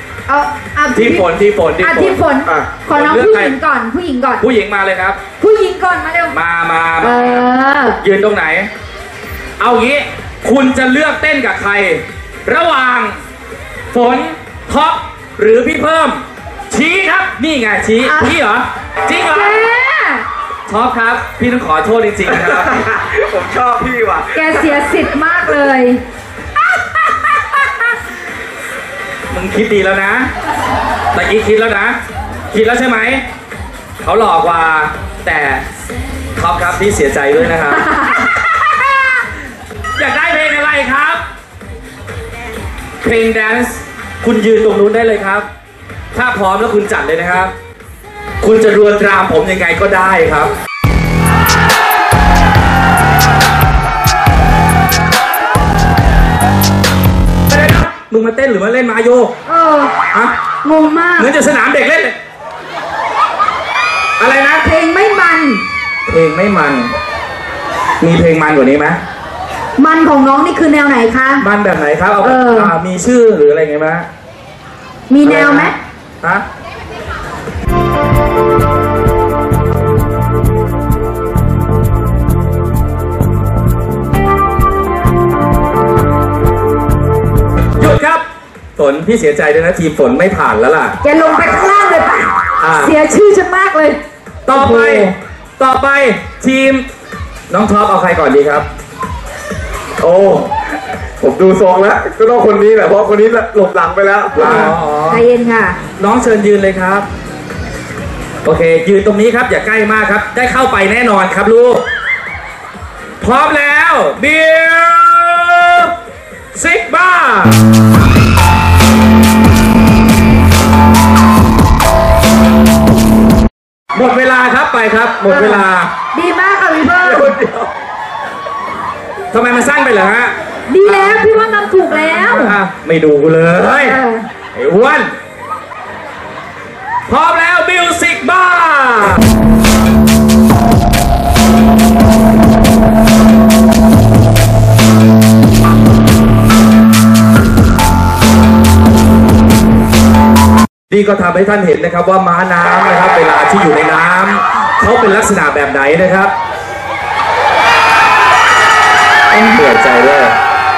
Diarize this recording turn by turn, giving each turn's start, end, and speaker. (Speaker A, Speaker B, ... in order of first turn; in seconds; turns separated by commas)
Speaker A: 0.3-1.3, Speaker B: 0.9-2.2, Speaker A: 1.8-4.4, Speaker B: 2.9-3.6, Speaker B: 4.4-5.2, Speaker A: 5.4-6.3, Speaker B: 6.3-7.5, Speaker A: 7.0-8.0, Speaker B: 8.0-8.7, Speaker B: 9.6-13.2, Speaker B: 13.9-19.6, Speaker A: 18.0-18.4, Speaker A: 19.2-20.2, Speaker B: 20.7-22.8, Speaker C: 22.3-24.8, Speaker A: 24.3-26.0, Speaker B: 29.3-30.3, Speaker B: 31.1-32.0, Speaker B: 32.5-33.2, Speaker B: 34.0-35.6, Speaker B: 36.4-37.9, Speaker A: 37.9-38.3, Speaker B: 40.0-41.2, Speaker B: 43.0-45.5, Speaker B: 46.1-47.5, Speaker B: 48.4-50.5, Speaker B: 57.5-59.3, Speaker A: 59.5-59.9, Speaker A: 60.6-61.3, Speaker B: 61.2-62.1, Speaker B: 64.2-64.7, Speaker A: 64.6-65.6, Speaker B: 66.1-66.9, Speaker B: 68.0-69.0, Speaker A: 69.8-71.4, Speaker B: 71.4-74.1, Speaker A: 72.2-72.7, Speaker A: 75.1-75.8, Speaker B: 75.2-76.4, Speaker B: 87.8-88.2, Speaker B: 88.8-90.9, Speaker A: 91.0-95.2, Speaker B: 92.6-92.9, Speaker B: 94.5-96.8, Speaker B: 97.5-98.7, Speaker C: 100.0-100.7, Speaker C: 101.2-104.7, Speaker A: 104.3-105.8, Speaker B: 104.3-105.2, Speaker B: 106.0-107.1, Speaker B: 108.4-111.8, Speaker B: 113.2-115.9, Speaker B: 116.5-117.6, Speaker B: 123.9-125.9, Speaker A: 125.3-127.3, Speaker C: 127.0-127.7, Speaker B: 129.3-130.3, Speaker A: 130.7-132.6, Speaker B: 130.8-131.2, Speaker B: 132.2-134.0, Speaker A: 133.8-134.2, Speaker B: 134.5-135.1, Speaker B: 137.1-139.2, Speaker B: 150.9-156.3, Speaker B: 159.3-160.3